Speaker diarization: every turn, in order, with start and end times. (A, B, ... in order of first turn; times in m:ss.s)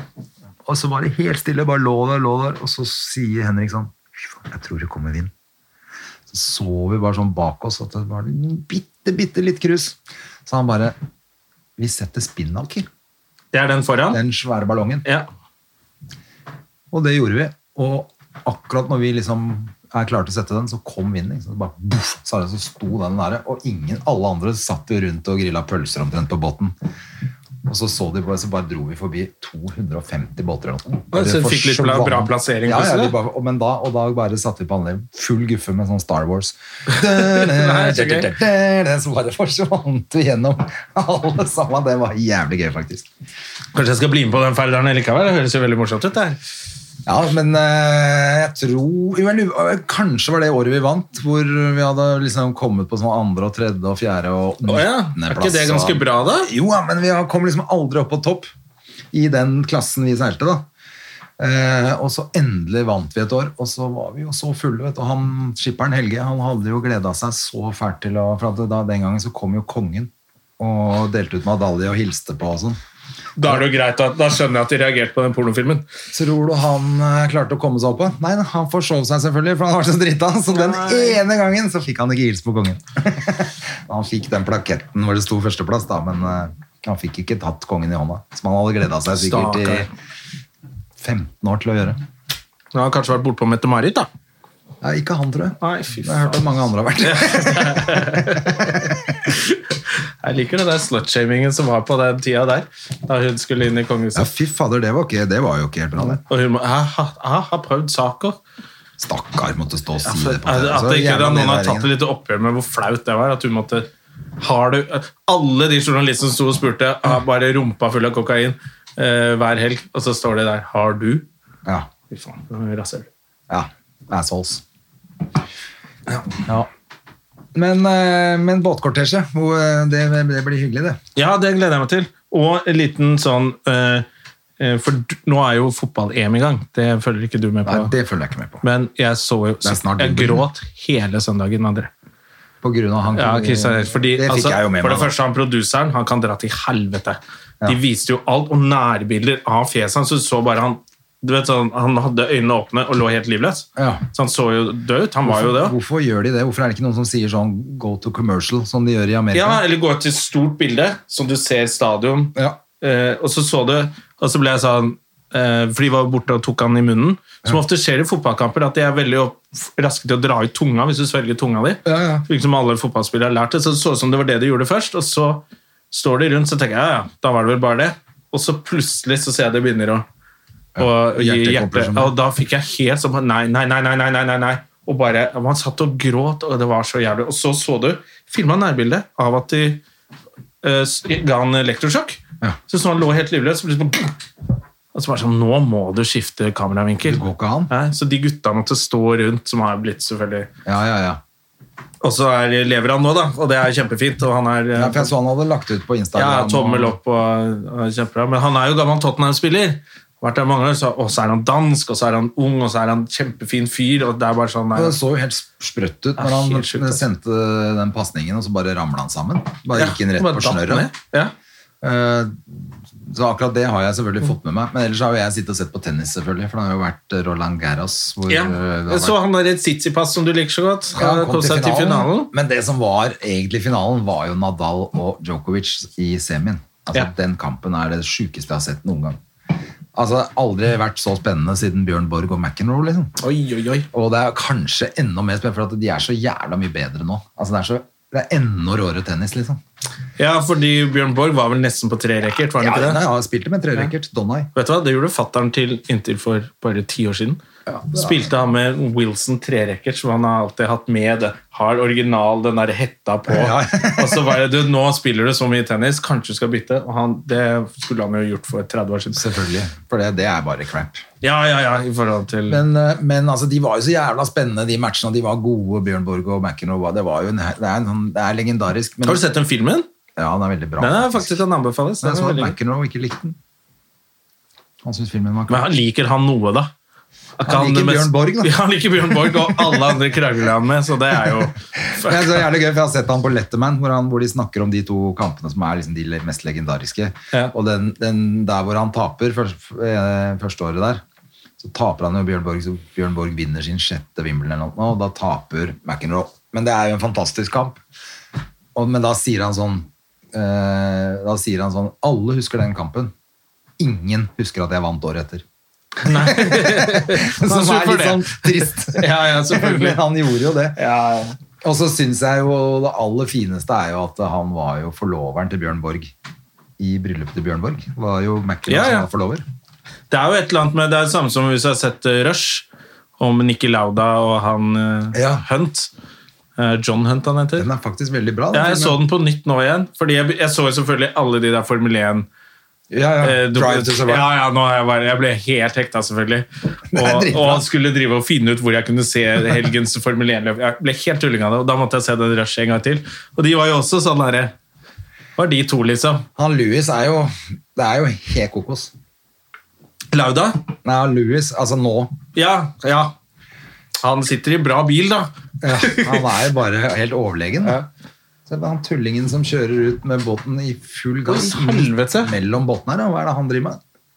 0:00.6-0:05.3 A
0:06.3-0:10.9 A
0:11.8-0:12.9 A
0:13.5-0:14.2 B
0:14.1-0:15.0 A
0:16.9-0:26.8 A
0:27.6-0:43.1 A
0:31.1-0:33.1 B
0:36.9-0:38.3 B
0:43.7-0:46.4 B
0:47.0-0:58.5 A
0:54.6-0:56.5 B
0:59.1-1:00.6 A
1:01.4-1:12.8 A
1:13.4-1:15.8 B
1:16.1-1:29.9 A
1:20.5-1:21.2 B
1:29.1-1:29.9 B
1:31.0-1:32.0 A
1:32.7-1:34.1 B
1:34.8-1:39.0 A
1:35.6-1:36.4 B
1:37.0-1:38.8 B
1:39.3-1:39.6 B
1:40.2-1:44.3 B
1:44.1-1:46.2 A
1:46.0-1:48.4 B
1:49.0-1:51.9 A
1:50.0-1:53.9 B
1:54.4-2:01.2 B
2:02.1-2:03.1 B
2:03.5-2:04.6 A
2:06.3-2:06.7 A
2:07.5-2:11.0 A
2:11.2-2:14.0 B
2:14.6-2:17.9 B
2:17.6-2:18.6 A
2:18.6-2:21.9 B
2:19.6-2:20.4 A
2:22.6-2:25.1 A
2:23.2-2:35.8 B
2:33.8-2:34.0 A
2:35.2-2:39.6 A
2:39.3-3:00.0 B
2:51.8-2:52.2 A
3:00.7-3:02.1 A
3:00.8-3:09.8 B
3:10.6-3:14.1 B
3:14.9-3:20.5 B
3:17.0-3:17.7 A
3:20.6-3:21.2 A
3:22.0-3:25.1 B
3:24.7-3:27.0 A
3:26.1-3:35.0 B
3:34.7-3:40.9 A
3:36.2-3:37.1 B
3:39.7-3:41.3 B
3:41.8-3:49.2 A
3:48.3-3:52.3 B
3:50.9-3:59.2 A
3:59.9-4:03.1 A
4:03.2-4:03.9 B
4:03.9-4:09.6 A
4:10.2-4:13.0 B
4:12.5-4:14.5 A
4:14.5-4:17.4 B
4:17.7-4:18.3 A
4:17.9-4:29.2 B
4:23.3-4:24.4 A
4:29.1-4:31.0 A
4:31.2-4:32.6 B
4:32.5-4:39.2 A
4:39.0-4:39.9 B
4:40.2-4:41.4 A
4:40.8-4:42.5 B
4:42.0-4:43.4 A
4:44.8-4:45.7 A
4:45.5-4:46.7 B
4:47.4-4:52.4 B
4:47.4-4:50.0 A
4:51.9-5:01.0 A
5:01.6-5:07.8 A
5:08.7-5:13.1 A
5:13.8-5:15.4 A
5:16.0-5:20.0 B
5:16.0-5:20.8 A
5:20.8-5:21.4 B
5:21.6-5:26.1 A
5:26.8-5:29.4 A
5:28.7-5:29.1 B
5:30.1-5:32.7 B
5:33.2-5:35.9 B
5:35.1-5:35.4 A
5:36.6-5:37.7 B
5:37.6-5:39.0 A
5:38.5-5:42.3 B
5:42.9-5:44.3 A
5:43.2-5:54.5 B
5:46.9-5:47.6 A
5:55.4-5:56.2 B
5:56.4-5:58.9 A
6:00.1-6:00.6 B
6:00.8-6:02.1 A
6:02.3-6:03.1 B
6:04.0-6:06.3 B
6:05.6-6:07.8 A
6:07.6-6:07.9 B
6:08.5-6:13.8 A
6:11.3-6:12.3 B